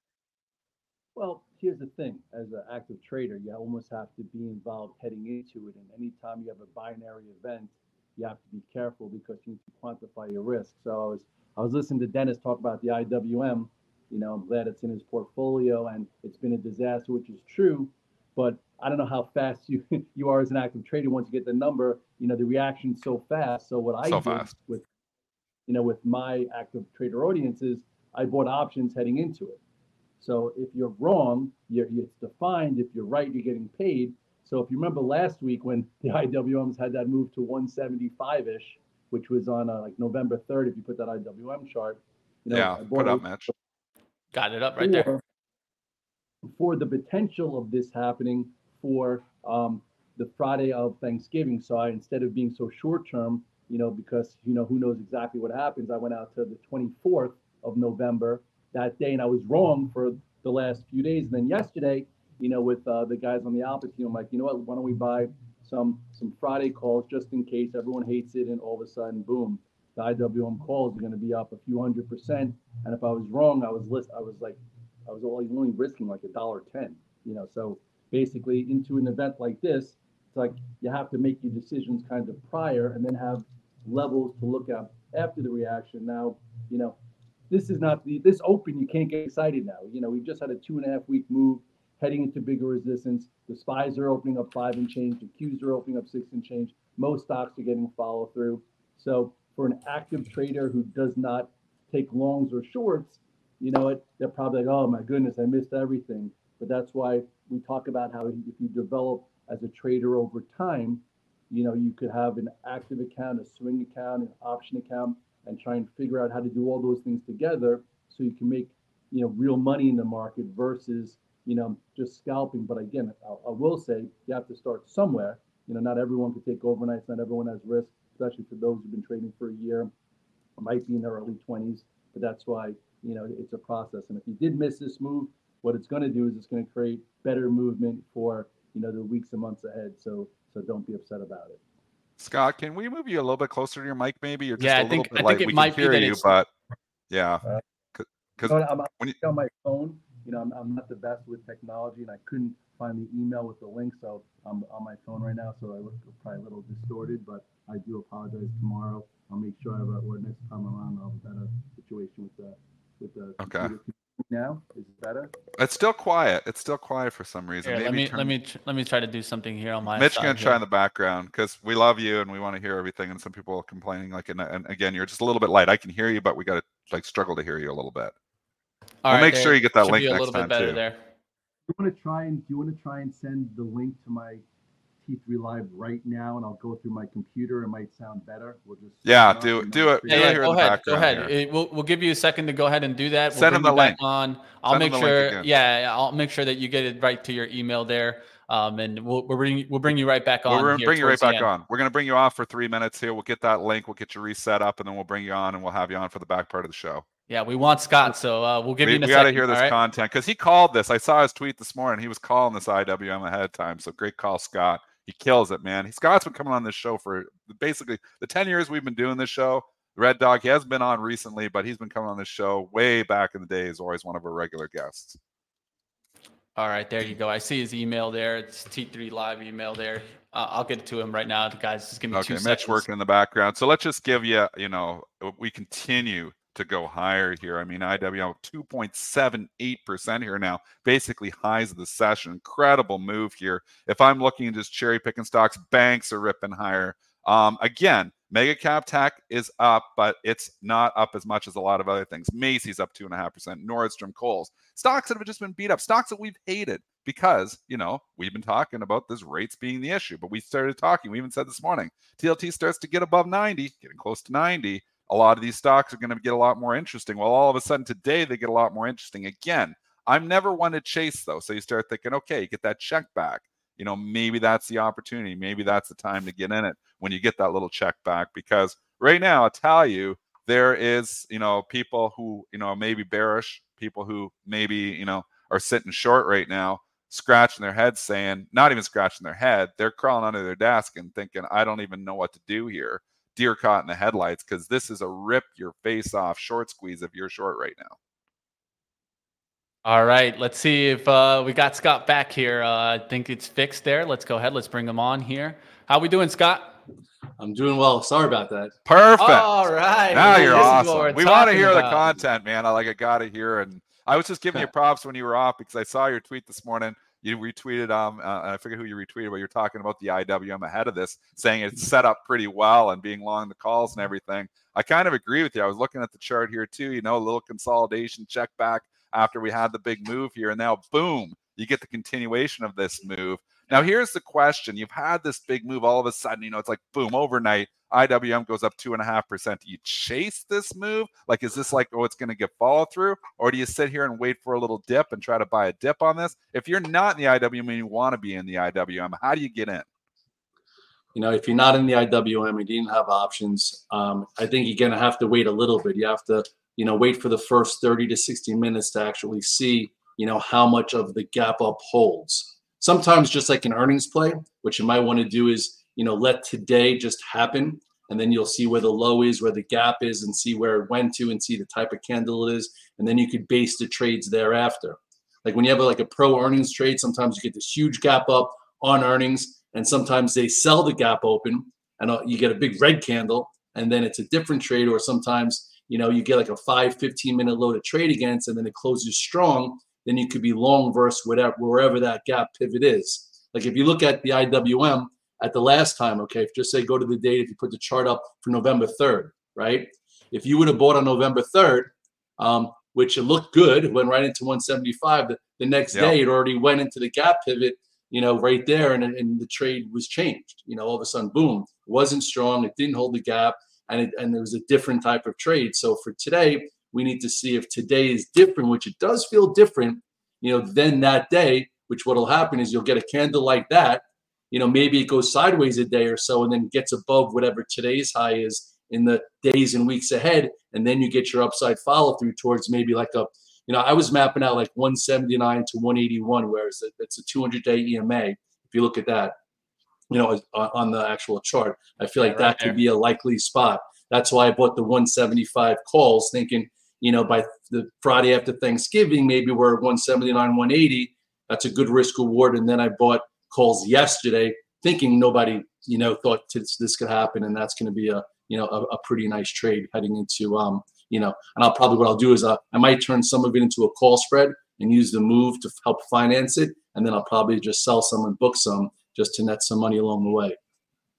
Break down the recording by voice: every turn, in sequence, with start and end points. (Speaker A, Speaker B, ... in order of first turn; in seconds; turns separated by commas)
Speaker A: 1.1-24.9, Speaker B: 24.1-24.6, Speaker A: 25.7-29.6, Speaker A: 30.2-43.5, Speaker B: 42.5-43.5, Speaker C: 44.3-45.1, Speaker A: 44.8-45.2, Speaker A: 46.5-87.0, Speaker A: 87.5-129.9, Speaker A: 130.6-141.6, Speaker B: 142.2-146.5, Speaker C: 144.6-146.3, Speaker B: 147.1-147.4, Speaker B: 147.9-149.2, Speaker A: 148.4-165.3, Speaker B: 163.4-163.8, Speaker B: 165.6-168.3, Speaker C: 167.6-170.6, Speaker B: 169.9-178.1, Speaker C: 179.0-181.0, Speaker B: 179.1-180.8, Speaker A: 181.7-184.4, Speaker A: 185.0-190.4, Speaker B: 189.1-191.3, Speaker C: 190.1-201.5, Speaker B: 193.3-194.0, Speaker B: 194.7-195.5, Speaker B: 200.5-207.1, Speaker C: 207.3-209.8, Speaker B: 208.8-225.2, Speaker C: 226.6-232.8, Speaker B: 232.1-298.0, Speaker C: 299.9-306.8, Speaker A: 307.4-308.8, Speaker B: 308.9-309.5, Speaker C: 309.2-312.1, Speaker B: 310.1-349.9, Speaker A: 310.3-310.8, Speaker A: 351.1-439.4, Speaker A: 440.1-470.6, Speaker C: 442.2-442.8